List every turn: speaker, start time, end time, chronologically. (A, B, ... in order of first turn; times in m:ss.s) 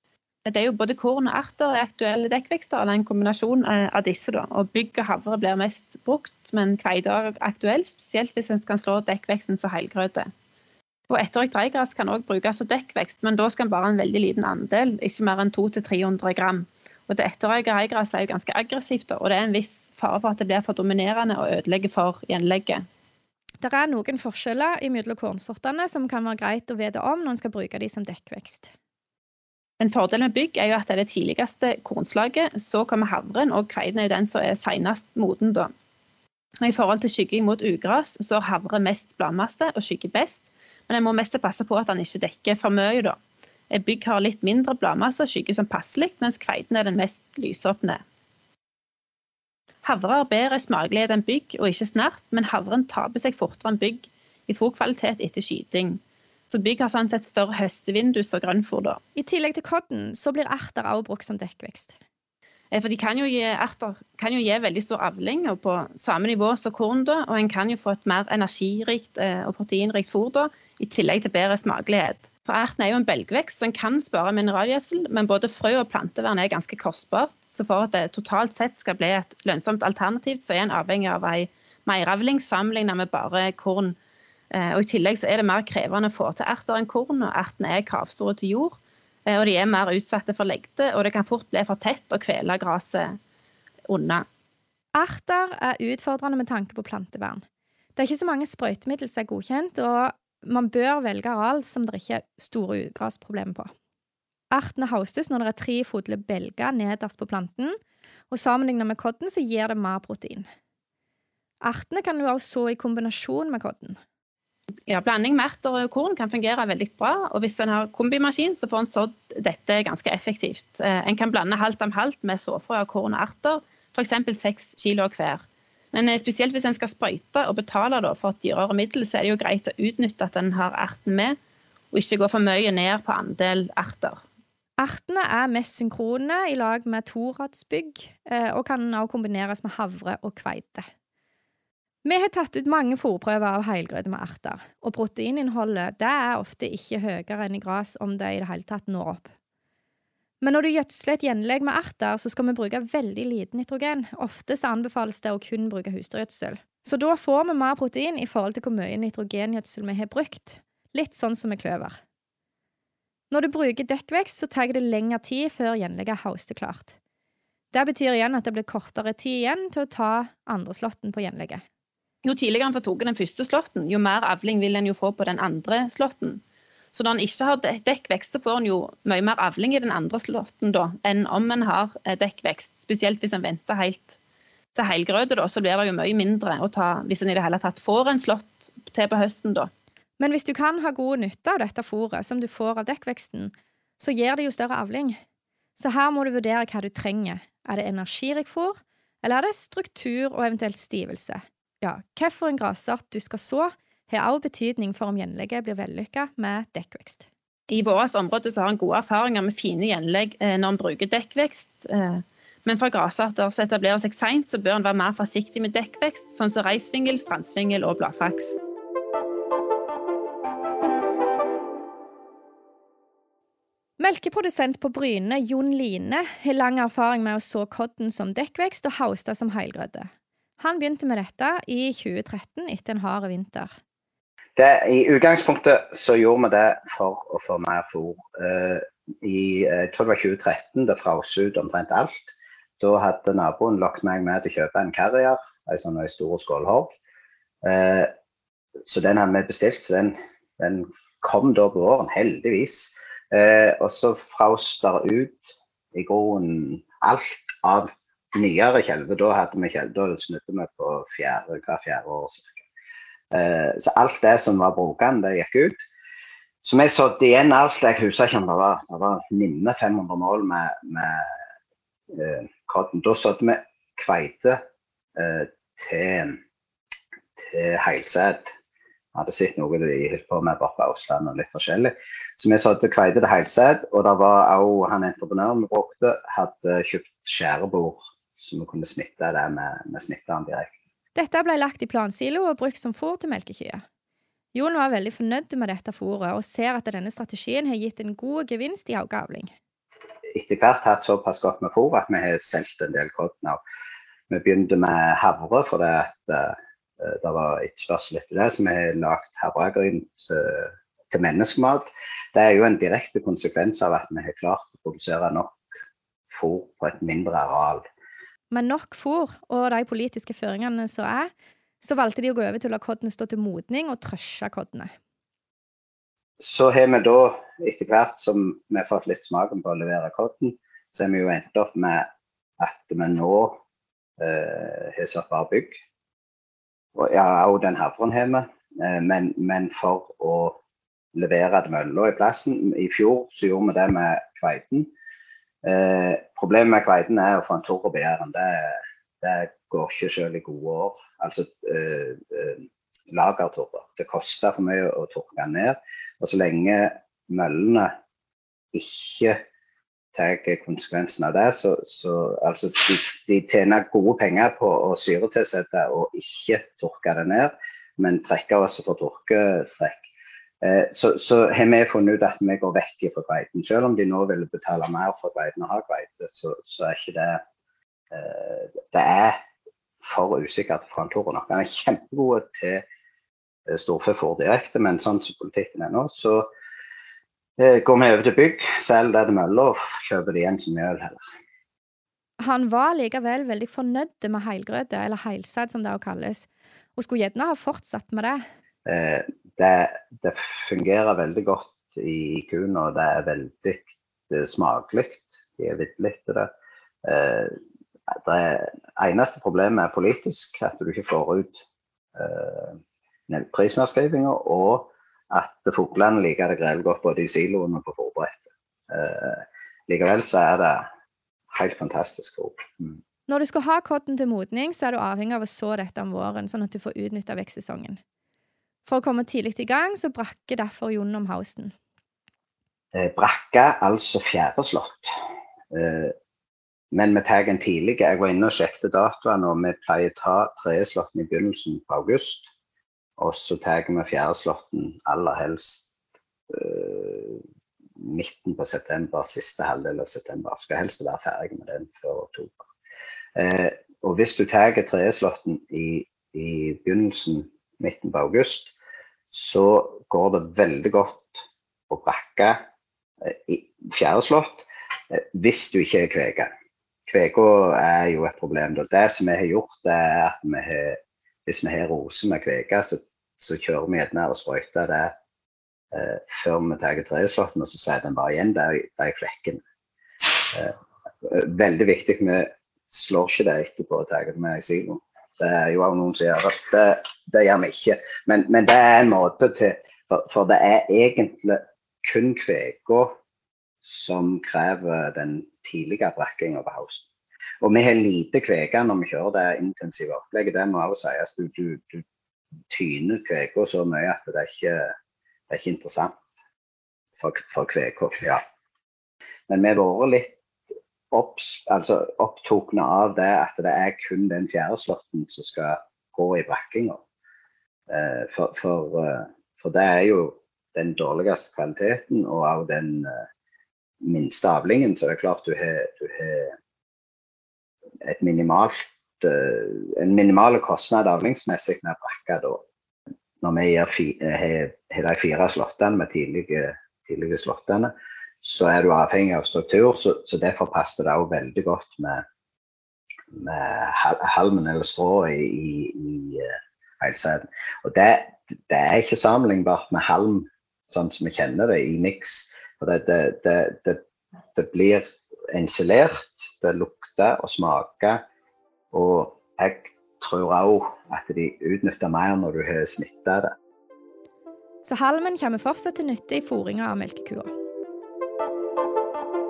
0:00.5-0:10.3 A
0:11.1-0:22.8 A
0:23.6-0:28.7 B
0:29.8-0:35.7 A
0:36.6-0:43.2 A
0:43.7-0:48.0 A
0:49.8-0:59.0 A
0:59.2-1:02.0 B
1:02.7-1:24.0 A
1:24.5-1:33.2 A
1:33.9-1:34.2 A
1:35.0-1:37.4 B
1:38.0-1:43.7 B
1:44.5-1:47.8 B
1:48.3-1:50.5 B
1:51.6-1:54.0 B
1:54.9-2:05.4 A
2:05.9-2:11.4 A
2:11.9-2:14.2 A
2:14.8-2:20.9 B
2:22.0-2:29.3 B
2:30.4-2:42.0 B
2:43.3-2:47.0 B
2:47.7-2:51.6 B
2:52.2-2:56.4 A
2:56.9-3:04.2 A
3:04.8-3:09.7 A
3:10.2-3:15.2 B
3:15.8-3:27.3 B
3:27.7-3:38.6 A
3:44.0-3:53.7 B
3:54.6-4:07.0 C
4:07.6-4:08.1 C
4:08.9-4:22.6 C
4:23.3-4:25.8 C
4:26.6-4:31.3 C
4:32.1-4:34.6 C
4:35.2-4:36.4 C
4:37.4-4:38.5 C
4:39.2-4:50.7 C
4:51.2-4:53.8 B
4:54.6-4:59.5 B
5:00.3-5:03.6 C
5:04.3-5:15.6 C
5:16.3-5:17.9 C
5:18.5-5:24.9 B
5:26.4-5:32.1 C
5:32.6-5:33.6 C
5:34.2-5:35.8 C
5:37.0-5:40.6 C
5:41.2-5:44.9 C
5:45.6-5:57.9 C
5:58.7-5:59.4 C
6:00.1-6:10.0 C
6:10.6-6:17.4 C
6:18.1-6:19.4 C
6:20.0-6:22.8 C
6:23.7-6:26.5 C
6:27.6-6:31.2 C
6:32.4-6:38.4 B
6:38.9-6:46.5 C
6:47.0-6:47.6 C
6:48.1-6:51.6 C
6:52.2-7:00.9 C
7:01.5-7:03.0 C
7:03.3-7:08.0 B
7:08.9-7:11.7 B
7:12.9-7:15.1 C
7:15.7-7:16.2 C
7:16.9-7:22.5 C
7:23.2-7:25.9 C
7:26.5-7:27.4 C
7:28.0-7:32.7 C
7:33.4-7:38.7 C
7:39.3-7:42.6 C
7:43.2-7:46.5 C
7:47.1-7:55.1 C
7:55.9-7:59.6 C
8:00.2-8:13.2 C
8:13.8-8:17.1 C
8:17.6-8:22.0 C
8:22.7-8:24.9 C
8:25.5-8:26.2 C
8:27.2-8:28.4 C
8:29.5-8:30.4 C
8:31.1-8:37.0 C
8:37.9-8:43.2 C
8:44.0-8:46.6 C
8:48.0-8:52.6 C
8:53.4-8:57.9 C
8:58.4-9:02.2 C
9:03.3-9:14.0 C
9:14.6-9:18.2 C
9:18.9-9:23.5 C
9:24.8-9:27.5 B